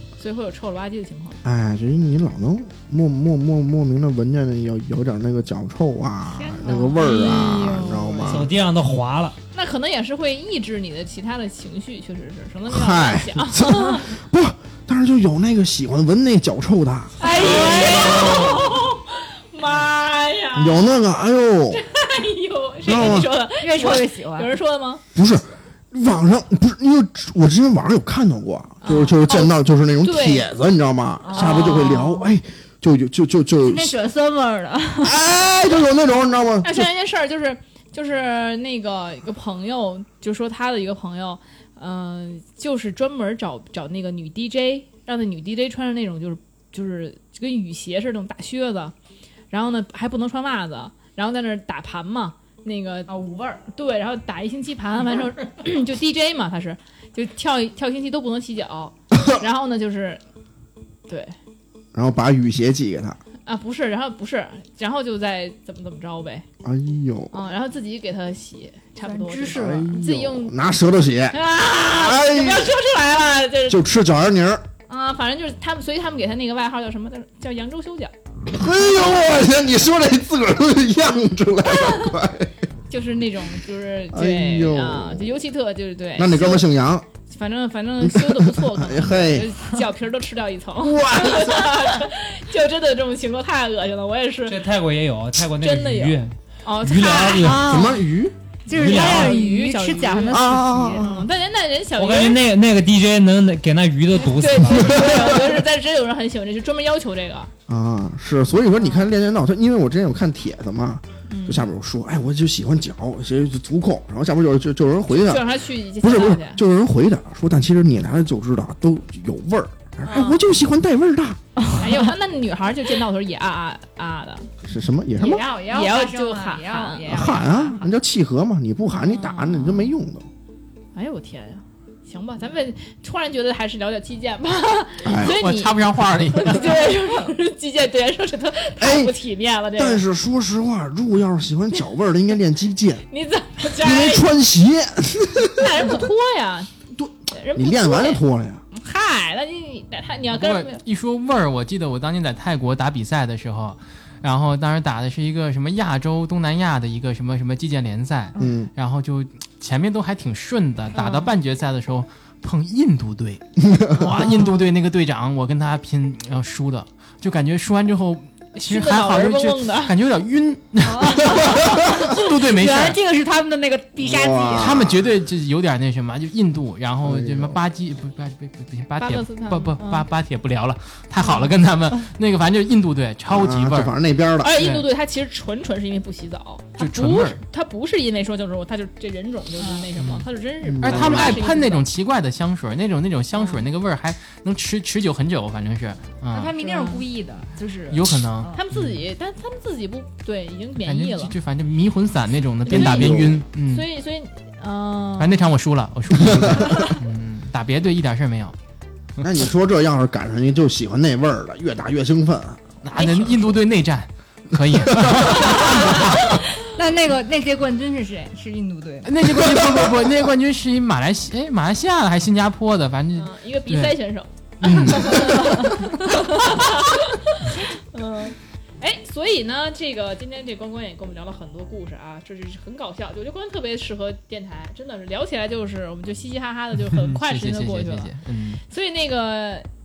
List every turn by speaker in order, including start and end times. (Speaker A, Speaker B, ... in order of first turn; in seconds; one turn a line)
Speaker A: 0.2-1.4
Speaker B: 1.4-8.5
Speaker A: 6.3-8.3
Speaker C: 8.2-9.4
Speaker A: 9.5-14.1
Speaker B: 12.7-18.5
Speaker D: 17.2-18.6
Speaker A: 17.2-21.1
Speaker B: 20.6-21.8
Speaker A: 21.7-25.0
Speaker B: 22.8-23.3
Speaker D: 23.6-24.6
Speaker B: 25.1-34.0
Speaker A: 28.8-30.5
Speaker D: 31.2-32.2
Speaker A: 31.3-32.2
Speaker D: 33.6-35.2
Speaker B: 35.0-36.9
Speaker A: 36.6-49.0
Speaker A: 49.5-53.1
Speaker D: 53.1-53.6
Speaker A: 53.7-60.2
Speaker A: 61.1-61.4
Speaker B: 61.9-63.2
Speaker A: 63.5-66.5
Speaker B: 66.6-67.3
Speaker A: 67.3-70.5
Speaker D: 69.0-70.0
Speaker B: 69.5-72.7
Speaker A: 71.3-73.8
Speaker B: 73.7-74.6
Speaker A: 74.9-78.1
Speaker B: 78.5-82.5
Speaker A: 82.9-86.7
Speaker B: 84.1-85.4
Speaker B: 86.2-87.1
Speaker A: 87.3-94.6
Speaker B: 88.0-89.5
Speaker B: 90.8-91.9
Speaker C: 94.5-97.8
Speaker A: 95.6-97.7
Speaker D: 97.3-98.0
Speaker B: 97.6-98.4
Speaker D: 98.7-101.1
Speaker C: 98.7-99.4
Speaker A: 98.8-102.4
Speaker B: 100.3-101.3
Speaker C: 102.0-105.0
Speaker A: 104.2-107.5
Speaker B: 104.8-105.3
Speaker D: 104.9-105.5
Speaker B: 107.7-115.5
Speaker A: 108.8-109.0
Speaker A: 111.3-111.6
Speaker A: 115.1-116.6
Speaker B: 116.0-121.4
Speaker A: 120.0-120.5
Speaker D: 121.6-122.1
Speaker A: 121.8-124.5
Speaker B: 124.6-125.5
Speaker D: 125.2-127.8
Speaker A: 125.7-127.8
Speaker B: 127.1-130.2
Speaker A: 128.9-129.9
Speaker A: 130.9-140.0
Speaker B: 135.0-135.4
Speaker E: 135.1-136.8
Speaker D: 136.5-137.1
Speaker B: 138.8-139.1
Speaker B: 139.8-143.0
Speaker A: 143.1-144.3
Speaker B: 143.8-146.0
Speaker A: 145.6-146.7
Speaker B: 146.9-148.6
Speaker A: 147.3-150.8
Speaker E: 150.3-173.0
Speaker B: 158.4-158.7
Speaker A: 160.9-161.3
Speaker B: 163.6-164.2
Speaker D: 164.2-164.5
Speaker A: 168.6-169.9
Speaker D: 170.8-174.9
Speaker B: 171.5-172.0
Speaker B: 174.0-175.1
Speaker E: 174.6-183.9
Speaker B: 177.0-177.6
Speaker A: 179.0-180.1
Speaker B: 183.3-184.7
Speaker A: 184.4-191.9
Speaker E: 184.5-184.9
Speaker E: 186.8-187.4
Speaker D: 189.6-189.9
Speaker B: 190.6-191.4
Speaker E: 190.8-196.5
Speaker D: 196.3-198.6
Speaker A: 196.6-197.0
Speaker E: 197.9-199.0
Speaker A: 198.5-201.3
Speaker E: 200.8-203.9
Speaker B: 202.7-203.4
Speaker A: 202.7-205.4
Speaker E: 205.2-208.6
Speaker B: 206.2-206.7
Speaker B: 209.2-212.6
Speaker E: 212.8-216.2
Speaker A: 212.9-213.4
Speaker B: 214.9-216.0
Speaker D: 215.4-219.2
Speaker E: 219.0-224.0
Speaker B: 219.3-219.9
Speaker A: 223.1-238.1
Speaker E: 224.6-225.8
Speaker E: 236.9-238.6
Speaker A: 238.7-239.7